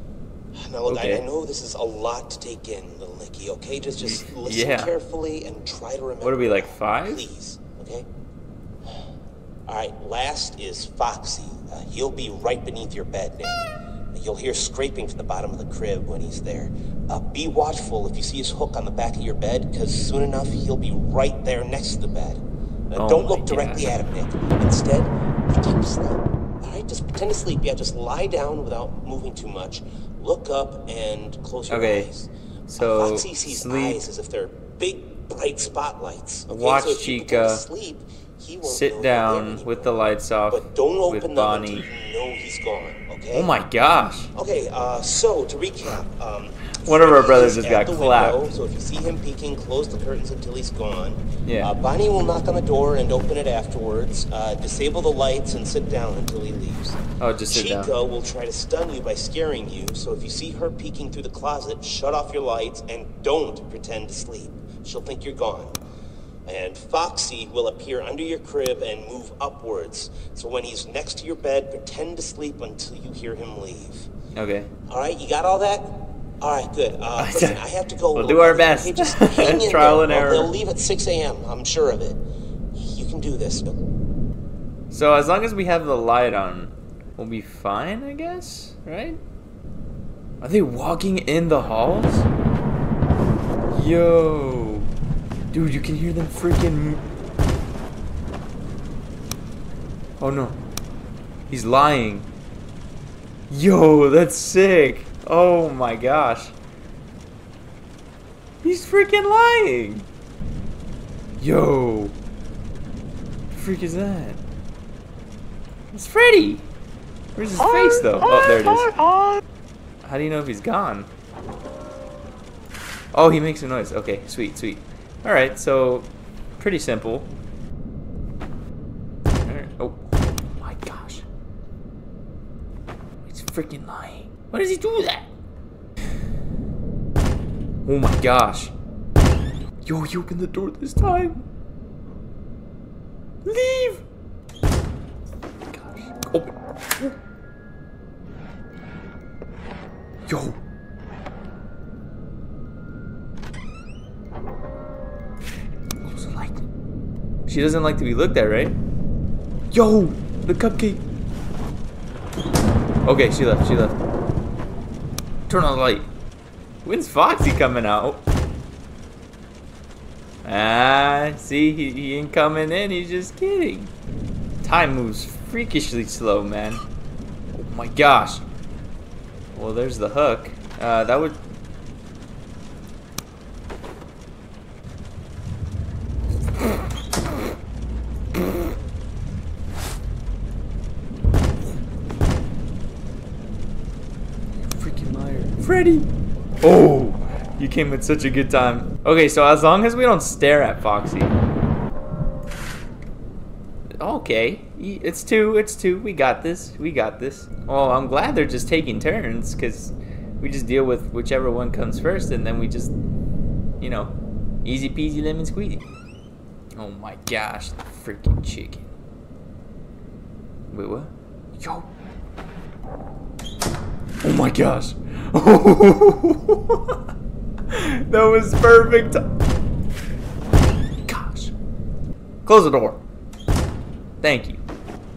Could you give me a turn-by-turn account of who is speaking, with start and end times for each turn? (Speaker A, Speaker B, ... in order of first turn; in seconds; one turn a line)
Speaker A: 0.6-8.1
Speaker B: 0.8-1.3
Speaker B: 4.0-4.9
Speaker B: 6.2-7.3
Speaker A: 9.7-43.5
Speaker B: 23.0-23.9
Speaker B: 31.7-32.1
Speaker B: 32.8-34.1
Speaker B: 36.5-37.6
Speaker B: 38.6-41.9
Speaker B: 43.3-44.3
Speaker A: 44.4-57.0
Speaker B: 46.8-48.5
Speaker B: 51.5-51.7
Speaker B: 57.2-57.9
Speaker A: 57.5-65.8
Speaker A: 66.5-74.1
Speaker B: 74.3-74.7
Speaker A: 74.9-82.2
Speaker B: 77.2-77.6
Speaker B: 78.1-80.5
Speaker A: 82.8-83.8
Speaker B: 84.9-89.2
Speaker B: 90.4-92.3
Speaker B: 93.7-94.9
Speaker B: 95.5-97.0
Speaker B: 100.2-100.6
Speaker B: 101.5-102.3
Speaker B: 103.5-106.5
Speaker B: 108.6-110.1
Speaker B: 111.4-112.2
Speaker B: 113.5-114.4
Speaker B: 115.9-116.7
Speaker B: 117.3-119.0
Speaker B: 120.0-121.1
Speaker B: 123.1-127.3
Speaker B: 129.4-131.2
Speaker B: 133.2-135.3
Speaker B: 137.8-138.7
Speaker B: 139.8-141.4
Speaker B: 143.4-144.0
Speaker B: 145.7-147.2
Speaker B: 150.3-150.6
Speaker B: 156.0-156.6
Speaker B: 157.5-158.8
Speaker B: 159.7-161.0
Speaker B: 163.1-164.0
Speaker B: 165.5-166.1
Speaker B: 166.8-168.2
Speaker B: 170.4-173.9
Speaker B: 174.6-176.8
Speaker B: 177.5-178.4
Speaker B: 179.5-181.4
Speaker B: 194.7-196.1
Speaker B: 196.6-201.3
Speaker B: 204.0-212.9
Speaker B: 213.8-214.1
Speaker B: 214.7-215.8
Speaker B: 216.8-218.8
Speaker B: 220.7-221.9
Speaker B: 224.2-227.0
Speaker B: 227.7-229.3
Speaker B: 231.1-231.5
Speaker B: 232.5-233.0
Speaker B: 234.2-234.6